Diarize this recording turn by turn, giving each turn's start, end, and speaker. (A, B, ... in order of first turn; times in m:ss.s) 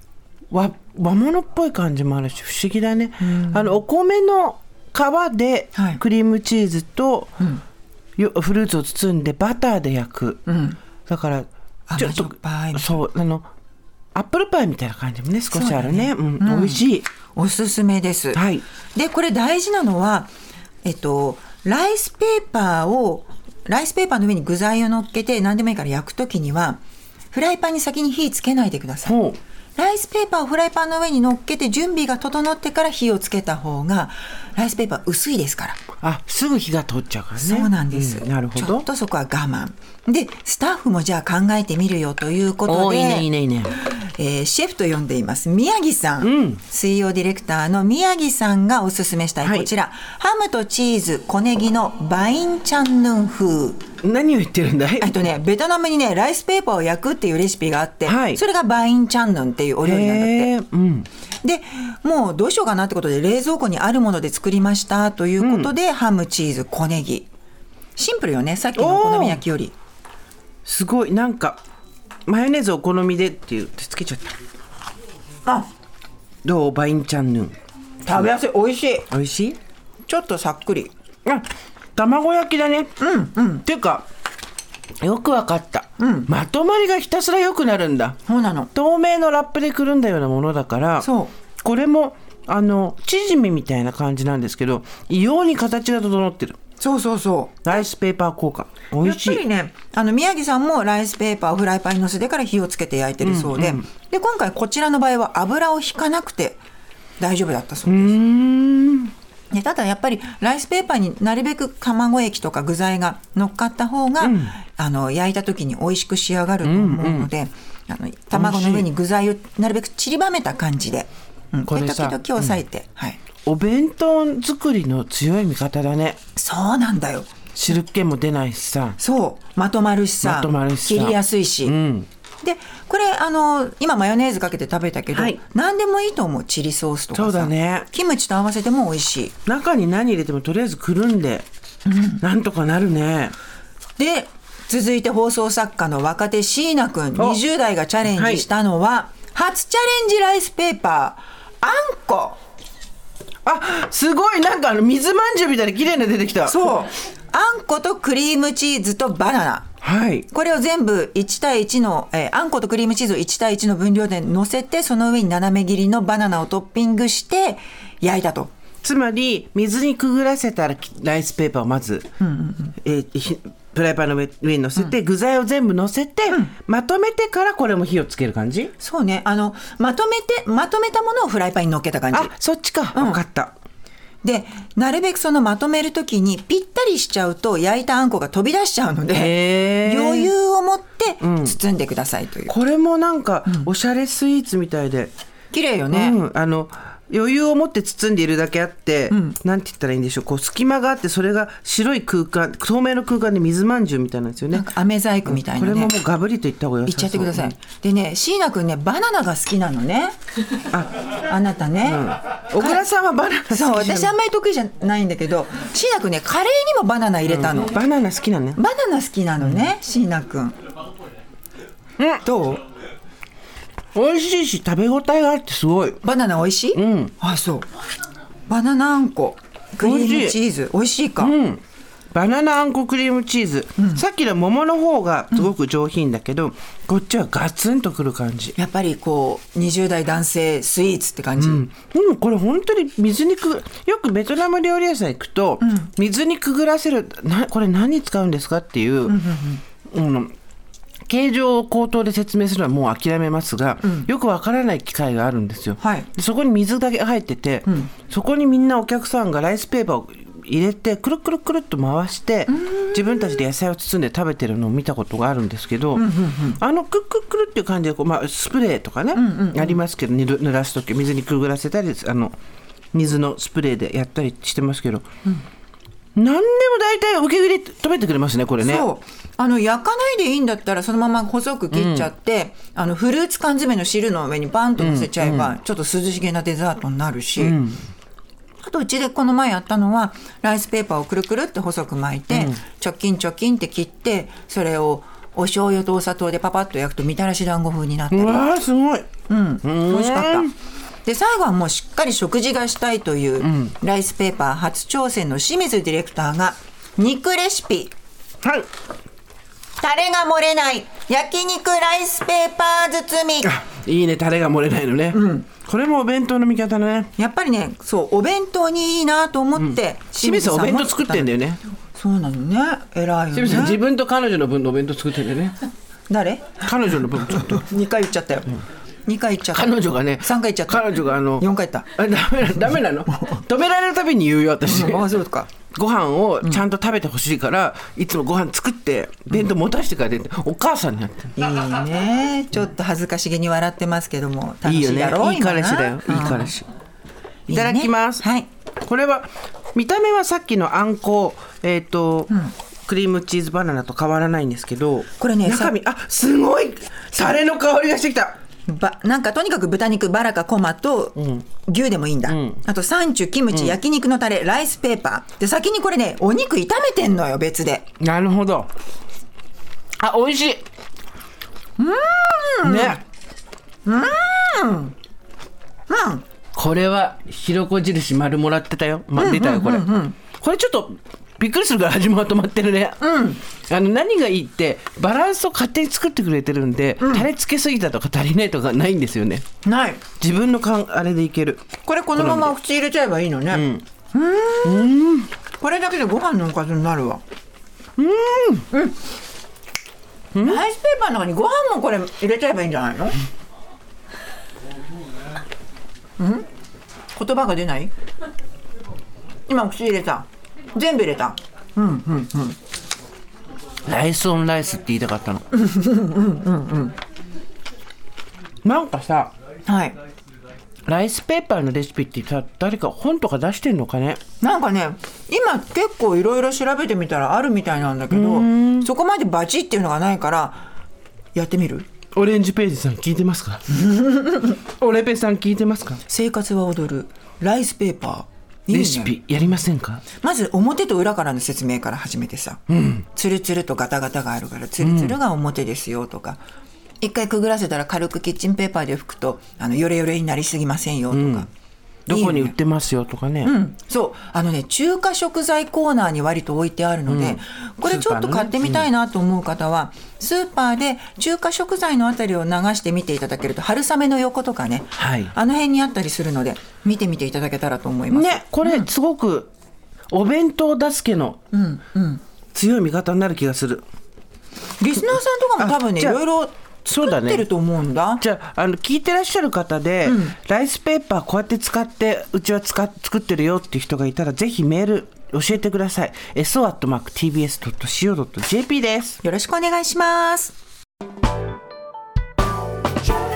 0:00.5-0:07.3 A
0:03.2-0:03.7 B
0:05.8-0:06.0 B
0:08.2-0:10.4 A
0:10.5-0:10.8 B
0:11.1-0:11.5 A
0:11.9-0:12.9 B
0:12.0-0:13.5 A
0:14.2-0:17.1 A
0:15.5-0:16.8 B
0:17.4-0:18.4 B
0:18.3-0:18.6 A
0:19.0-0:20.3 B
0:20.8-0:26.8 B
0:27.3-0:29.2 B
0:29.0-0:29.4 A
0:29.8-0:35.8 B
0:36.0-0:38.8 A
0:37.4-0:53.8 B
0:42.7-0:43.8 A
0:46.2-0:46.6 A
0:49.4-0:49.7 A
0:54.0-0:55.1 A
0:55.0-1:00.5 B
0:58.1-0:58.4 A
0:59.8-1:01.1 A
1:01.4-1:07.3 B
1:05.4-1:05.7 A
1:08.0-1:09.8 B
1:08.8-1:09.4 A
1:10.6-1:11.6 A
1:12.3-1:14.3 A
1:16.4-1:17.6 A
1:18.0-1:19.1 B
1:19.1-1:19.6 A
1:20.1-1:20.9 B
1:21.3-1:22.9 A
1:23.0-1:23.6 B
1:23.6-1:24.1 A
1:25.0-1:28.2 A
1:26.0-1:26.3 B
1:28.3-1:28.7 B
1:28.8-1:31.1 A
1:31.0-1:31.3 B
1:31.6-1:36.6 A
1:36.8-1:37.8 B
1:37.6-1:39.4 A
1:39.0-1:46.6 B
1:43.2-1:43.8 A
1:47.2-1:48.2 B
1:47.9-1:49.1 A
1:49.5-2:03.2 B
1:54.2-1:54.6 A
1:56.6-1:57.3 A
1:58.3-1:58.9 A
2:01.7-2:02.6 A
2:03.4-2:06.2 A
2:06.4-2:07.3 B
2:07.6-2:09.0 A
2:09.0-2:11.7 B
2:10.2-2:12.1 A
2:12.4-2:19.4 B
2:15.1-2:15.4 A
2:17.1-2:17.9 A
2:19.5-2:21.4 A
2:21.9-2:22.2 B
2:22.2-2:23.4 A
2:24.0-2:32.4 B
2:28.1-2:28.4 A
2:33.4-2:36.6 A
2:36.4-2:39.7 B
2:39.8-2:40.3 A
2:40.3-2:48.5 B
2:48.8-2:52.1 A
2:52.2-2:52.8 B
2:52.8-2:58.7 A
2:58.8-3:02.3 B
3:02.1-3:03.5 A
3:03.0-3:03.2 B
3:04.2-3:12.5 B
3:09.1-3:10.3 A
3:11.2-3:11.6 A
3:12.5-3:15.1 A
3:15.5-3:16.2 B
3:15.9-3:24.7 A
3:19.1-3:19.4 B
3:24.5-3:25.9 B
3:25.3-3:27.5 A
3:26.9-3:30.2 B
3:31.3-3:32.8 B
3:31.9-3:34.1 A
3:33.5-3:37.8 B
3:37.3-3:38.6 A
3:38.6-3:40.6 B
3:42.2-3:42.6 B
3:44.0-3:46.0 A
3:46.0-3:47.7 B
3:46.7-3:47.1 A
3:48.5-3:51.4 B
3:49.8-3:50.4 A
3:51.2-3:51.6 A
3:52.1-3:58.6 A
3:53.8-3:54.0 B
3:58.6-4:01.6 B
4:01.4-4:09.2 A
4:05.6-4:05.9 B
4:09.1-4:09.6 B
4:09.9-4:10.3 A
4:11.1-4:26.1 A
4:13.8-4:14.1 B
4:15.8-4:16.1 B
4:22.5-4:23.4 B
4:26.0-4:26.6 B
4:26.6-4:32.3 A
4:29.1-4:29.8 B
4:32.9-4:35.0 A
4:36.2-4:38.8 A
4:38.6-4:47.6 B
4:41.7-4:42.1 A
4:44.8-4:45.5 A
4:47.4-4:47.8 A
4:48.6-4:58.5 B
4:52.3-4:52.6 A
4:58.1-4:59.1 A
4:59.3-5:00.5 B
4:59.6-5:00.5 A
5:01.0-5:07.9 B
5:03.4-5:03.7 A
5:08.4-5:08.7 A
5:09.8-5:13.5 B
5:13.4-5:17.1 A
5:15.1-5:15.5 B
5:17.2-5:21.4 B
5:19.6-5:21.6 A
5:22.0-5:23.8 B
5:23.3-5:25.6 A
5:26.1-5:31.9 B
5:26.6-5:27.6 A
5:29.5-5:35.1 A
5:32.6-5:33.4 B
5:34.6-5:35.5 B
5:35.7-5:41.3 A
5:41.4-5:46.5 B
5:44.6-5:46.7 A
5:47.5-5:48.2 A
5:47.5-5:48.5 B
5:48.8-5:58.4 A
5:55.2-5:55.7 B
5:58.7-6:07.9 B
6:01.2-6:01.4 A
6:02.3-6:02.6 A
6:03.5-6:03.8 A
6:08.0-6:08.7 A
6:10.0-6:10.6 A
6:11.8-6:13.0 B
6:12.6-6:13.0 A
6:13.9-6:15.0 B
6:15.9-6:16.2 B
6:16.6-6:23.0 A
6:19.2-6:20.2 B
6:23.0-6:23.4 B
6:23.7-6:29.4 A
6:27.0-6:27.3 B
6:29.6-6:30.0 B
6:30.2-6:32.6 A
6:31.9-6:34.9 B
6:33.5-6:33.8 A
6:34.6-6:35.3 A
6:35.6-6:37.2 B
6:38.0-6:38.7 A
6:38.7-6:39.0 B
6:40.4-6:40.6 A
6:40.4-6:43.2 B
6:46.2-6:46.5 B
6:47.2-6:47.9 B
6:49.5-6:52.6 B
6:53.9-6:55.4 A
6:55.5-6:57.0 B
6:58.6-6:59.3 A
6:59.7-7:00.0 B
7:00.9-7:04.2 A
7:04.4-7:10.7 B
7:08.1-7:08.9 A
7:11.3-7:11.9 B
7:12.1-7:13.7 A
7:13.7-7:14.6 B
7:14.6-7:16.0 A
7:16.0-7:19.2 B
7:18.7-7:20.0 A
7:20.2-7:22.6 B
7:22.7-7:23.1 A
7:23.1-7:26.4 B
7:24.8-7:25.2 A
7:27.0-7:31.5 B
7:31.1-7:31.5 A
7:32.1-7:33.5 A
7:32.1-7:32.6 B
7:33.4-7:48.9 B
7:37.1-7:38.9 A
7:45.0-7:45.3 A
7:48.1-7:49.5 A
7:50.1-7:51.4 A
7:51.5-7:52.2 B
7:52.5-7:53.8 A
7:54.8-7:58.2 B
7:55.0-7:56.2 A
7:56.9-7:57.5 A
7:58.2-8:09.2 A
8:00.0-8:00.4 B
8:09.2-8:10.6 B